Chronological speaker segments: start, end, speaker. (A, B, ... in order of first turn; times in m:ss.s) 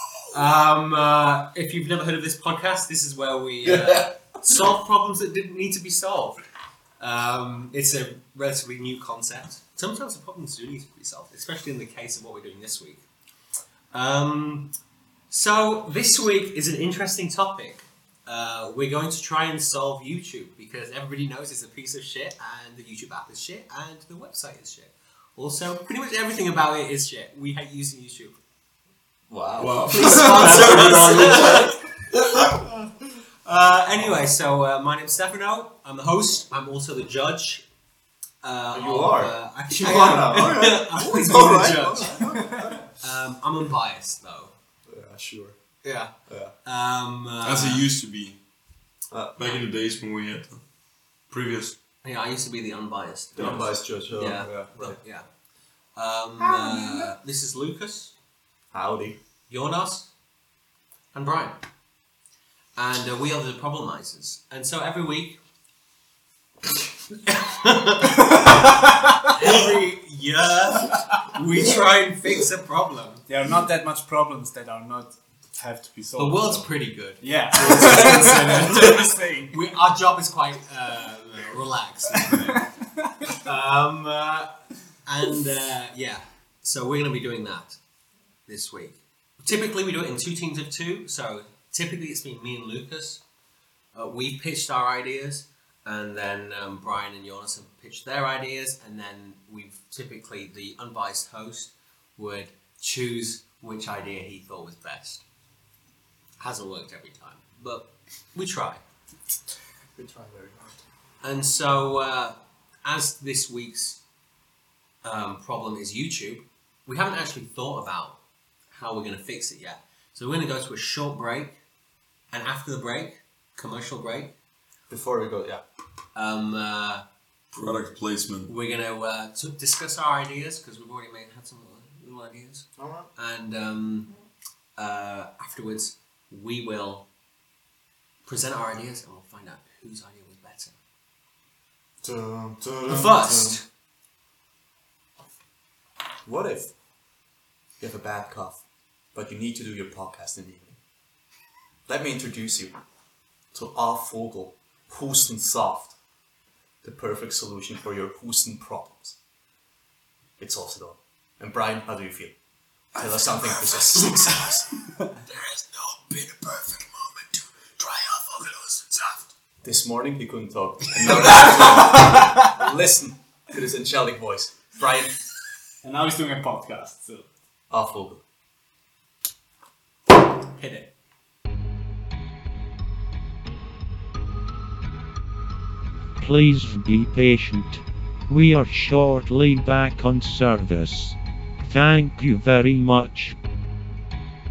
0:00.3-0:06.4 A
0:03.6-0:04.1 B
0:07.0-0:13.0 A
0:13.9-0:14.7 A
0:15.3-0:28.4 A
0:29.3-0:31.7 C
0:29.6-0:32.5 B
0:29.9-0:31.8 A
0:32.4-0:33.2 C
0:33.4-0:37.6 A
0:38.4-0:42.4 A
0:38.7-0:42.9 C
0:42.3-0:42.6 D
0:43.0-0:44.5 A
0:44.9-0:45.6 C
0:45.8-0:46.1 A
0:46.3-0:46.5 C
0:46.6-0:47.9 A
0:47.4-0:48.4 B
0:49.1-0:49.6 C
0:49.4-0:50.6 B
0:51.3-0:51.8 B
0:52.0-0:55.2 A
0:53.4-0:55.0 C
0:55.9-0:58.1 A
0:58.7-0:59.2 C
0:59.5-1:00.1 A
1:01.1-1:01.6 A
1:02.8-1:05.4 A
1:07.2-1:08.6 A
1:08.1-1:09.4 D
1:09.2-1:13.2 A
1:13.3-1:19.6 D
1:16.2-1:22.6 A
1:17.6-1:18.9 B
1:17.8-1:18.1 C
1:22.1-1:23.4 D
1:23.4-1:27.8 A
1:28.5-1:33.2 A
1:33.9-1:45.2 A
1:46.4-1:48.8 A
1:50.0-1:50.8 C
1:51.2-1:54.0 A
1:55.0-1:58.2 A
1:58.7-2:01.6 A
2:02.3-2:04.3 A
2:04.9-2:05.6 C
2:06.1-2:07.0 A
2:07.5-2:08.5 B
2:08.5-2:14.1 A
2:12.8-2:13.1 C
2:14.8-2:17.1 A
2:18.2-2:20.7 A
2:22.0-2:23.6 C
2:22.9-2:23.6 A
2:26.2-2:26.7 C
2:27.8-2:28.6 C
2:29.1-2:30.8 C
2:31.9-2:32.8 C
2:33.5-2:36.0 C
2:36.8-2:39.2 C
2:40.4-2:42.3 C
2:42.9-2:44.6 C
2:43.0-2:44.5 B
2:45.3-2:49.2 B
2:49.6-2:55.2 C
2:51.6-2:52.4 D
2:55.8-2:57.3 D
2:57.7-2:58.2 C
3:00.5-3:00.9 A
3:06.2-3:13.4 E